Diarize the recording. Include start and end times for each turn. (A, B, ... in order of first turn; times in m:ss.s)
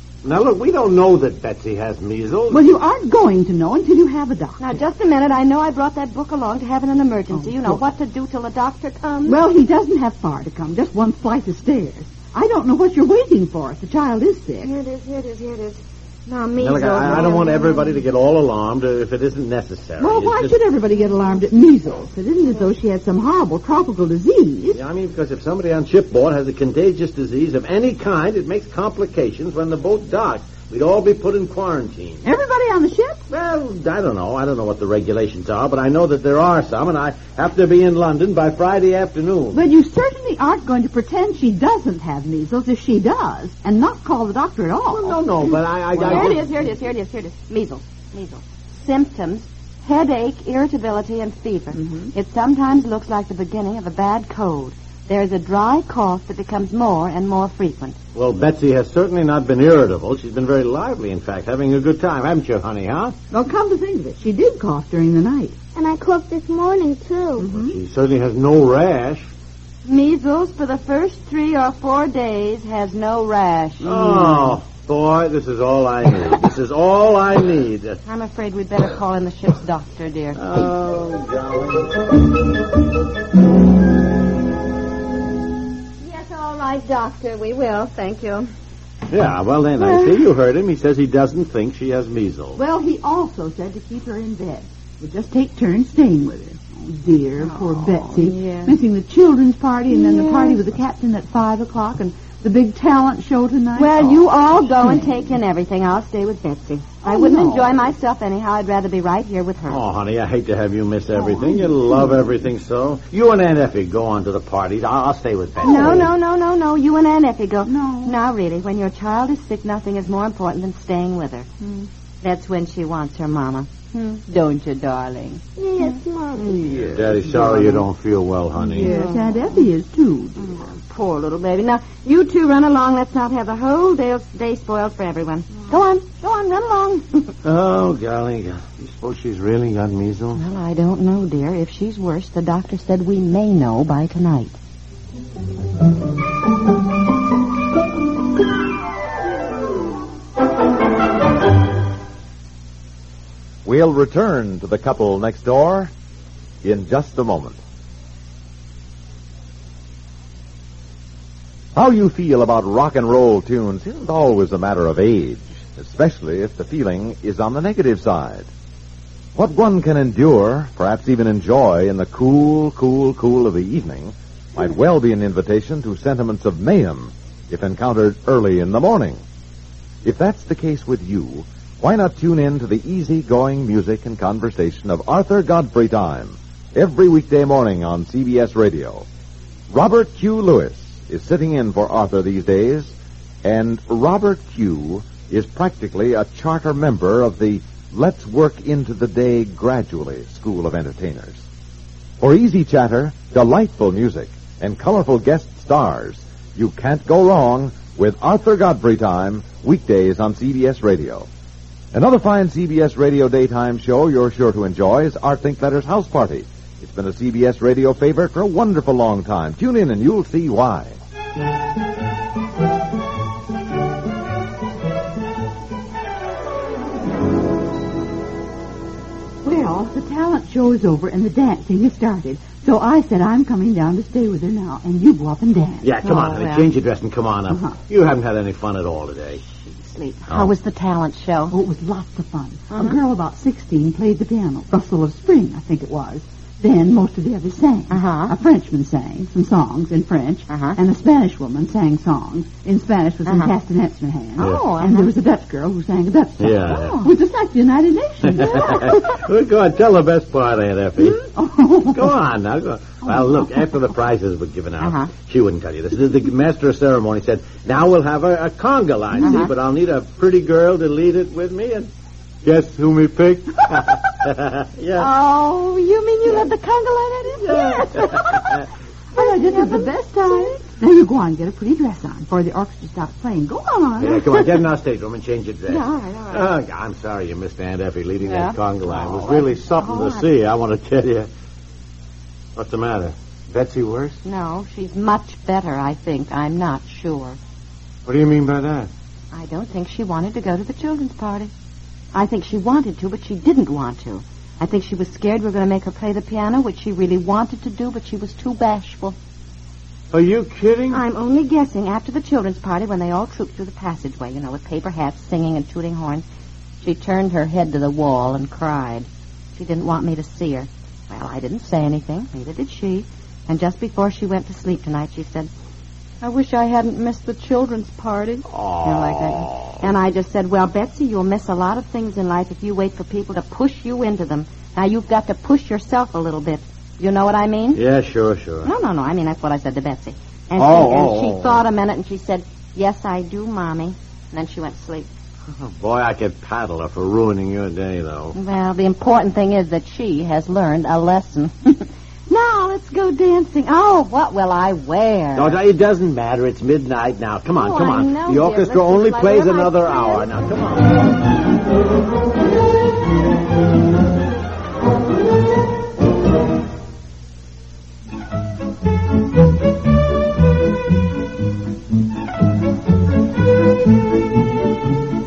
0:00.2-0:02.7 A
0:02.5-0:04.8 B
0:04.6-0:09.4 C
0:07.3-0:07.8 B
0:09.3-0:14.7 B
0:14.6-0:18.0 C
0:16.6-0:20.6 A
0:20.0-0:24.8 B
0:24.7-0:32.2 A
0:32.2-0:33.2 B
0:33.3-0:39.6 A
0:39.5-0:45.2 B
0:44.9-0:46.5 A
0:45.4-0:58.0 C
0:51.8-0:52.1 B
0:58.2-1:03.2 A
1:03.3-1:05.6 B
1:05.8-1:07.5 D
1:07.4-1:07.8 B
1:07.5-1:09.3 A
1:09.8-1:14.5 C
1:13.8-1:18.0 A
1:18.1-1:20.4 C
1:20.4-1:21.9 A
1:26.0-1:28.5 C
1:29.1-1:32.6 A
1:29.8-1:30.2 C
1:32.6-1:45.2 B
1:37.4-1:38.8 C
1:39.9-1:40.6 C
1:43.8-1:49.8 C
1:47.0-1:47.7 B
1:49.7-1:56.1 A
1:51.1-1:52.0 B
1:55.6-2:01.5 C
1:57.6-1:58.2 B
2:01.6-2:01.9 B
2:02.2-2:06.8 C
2:05.6-2:06.6 D
2:06.7-2:09.0 A
2:07.3-2:07.8 B
2:08.7-2:09.6 C
2:08.7-2:10.5 B
2:10.4-2:17.3 C
2:17.4-2:20.4 A
2:20.4-2:24.6 C
2:33.6-2:35.9 E
2:36.6-2:37.6 E
2:41.8-2:48.5 E
2:49.4-2:59.2 E
3:00.0-3:09.1 E
3:09.7-3:21.4 E
3:22.2-3:31.3 E
3:31.9-3:41.0 E
3:49.4-3:55.9 B
3:55.8-3:59.5 A
3:56.0-3:56.7 C
3:57.5-3:57.8 B
3:59.5-4:01.5 C
4:00.3-4:00.5 A
4:01.5-4:19.0 B
4:02.7-4:03.0 C
4:07.9-4:08.3 C
4:10.5-4:10.8 C
4:13.3-4:13.5 C
4:14.4-4:14.6 A
4:14.4-4:15.1 C
4:16.4-4:17.0 A
4:18.3-4:21.2 A
4:21.0-4:22.1 B
4:21.9-4:31.9 A
4:24.8-4:25.1 C
4:29.2-4:29.5 C
4:32.4-4:35.1 A
4:35.0-4:38.6 C
4:37.4-4:44.4 B
4:37.5-4:38.1 A
4:39.2-4:40.6 C
4:44.0-4:51.3 A
4:45.7-4:46.5 C
4:48.2-4:50.3 C
4:52.6-4:54.2 A
4:54.2-4:57.4 C
4:58.0-4:58.9 A
4:59.3-5:01.5 C
5:02.1-5:09.2 C
5:10.1-5:11.0 A
5:10.9-5:16.2 C
5:16.8-5:25.5 C
5:26.2-5:37.8 C
5:28.5-5:29.8 A
5:37.8-5:38.7 A
5:38.6-5:45.1 C
5:40.6-5:41.6 A
5:45.5-5:48.4 A
5:48.4-5:55.6 C
5:55.4-6:01.0 A
5:57.6-6:00.3 C